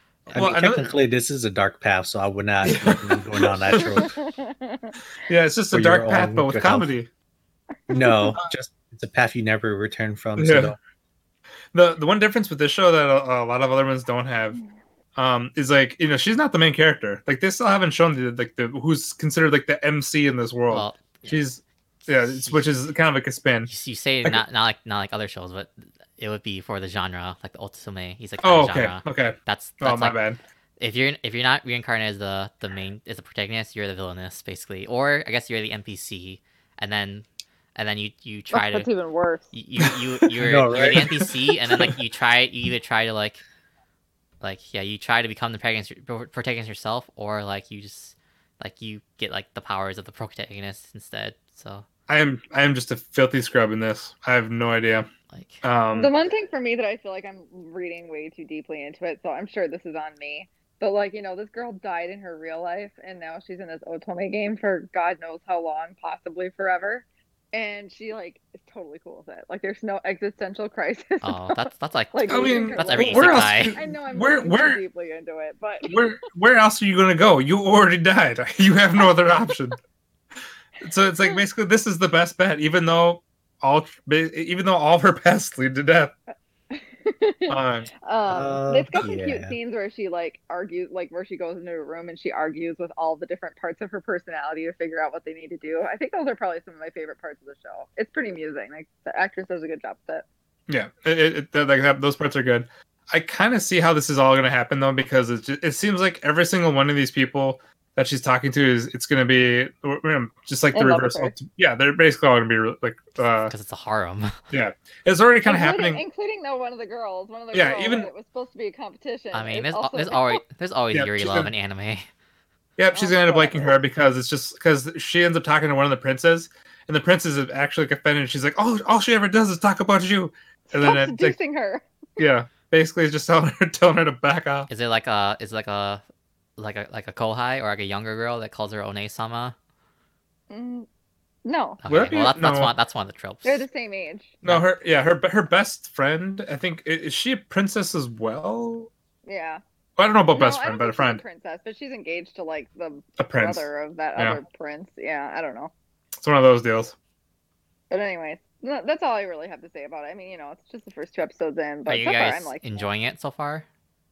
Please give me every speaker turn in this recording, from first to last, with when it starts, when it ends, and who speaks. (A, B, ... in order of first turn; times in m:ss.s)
0:00.2-0:00.5 A
0:00.3-0:04.1 B
0:00.3-0:00.9 C
0:02.6-0:04.0 C
0:03.7-0:04.9 D
0:05.2-0:07.1 C
0:05.7-0:06.9 B
0:07.9-0:10.8 B
0:07.9-0:08.4 D
0:10.4-0:10.8 C
0:11.7-0:14.6 C
0:15.2-0:23.7 C
0:20.7-0:21.4 A
0:22.2-0:22.7 A
0:23.7-0:30.2 A
0:28.4-0:30.4 C
0:30.8-0:38.9 A
0:38.5-0:39.5 D
0:39.5-0:43.4 A
0:40.4-0:41.3 B
0:44.4-0:51.8 A
0:52.1-0:55.1 C
0:55.3-0:55.6 A
0:55.6-0:56.1 C
0:55.9-1:16.0 D
1:11.2-1:13.8 A
1:12.3-1:14.8 C
1:15.8-1:19.8 C
1:19.0-1:19.5 D
1:20.8-1:26.1 C
1:26.7-1:40.2 D
1:27.5-1:27.9 C
1:28.3-1:29.6 B
1:40.7-1:53.5 C
1:50.7-1:51.3 D
1:53.5-1:54.4 A
1:54.5-1:56.0 C
1:55.4-2:00.4 D
1:57.5-1:58.1 C
1:59.3-2:02.1 A
2:00.9-2:01.5 C
2:02.8-2:11.4 C
2:02.9-2:03.8 D
2:10.7-2:11.8 D
2:12.2-2:14.7 C
2:14.7-2:16.0 A
2:16.6-2:19.5 A
2:20.5-2:20.9 D
2:21.4-2:21.8 D
2:21.8-2:23.6 A
2:21.9-2:22.7 C
2:23.4-2:24.4 D
2:24.4-2:28.9 C
2:29.2-2:29.6 D
2:30.0-2:31.2 C
2:30.3-2:35.7 D
2:33.2-2:34.4 C
2:36.2-2:36.9 C
2:37.9-2:42.6 D
2:41.9-2:43.6 A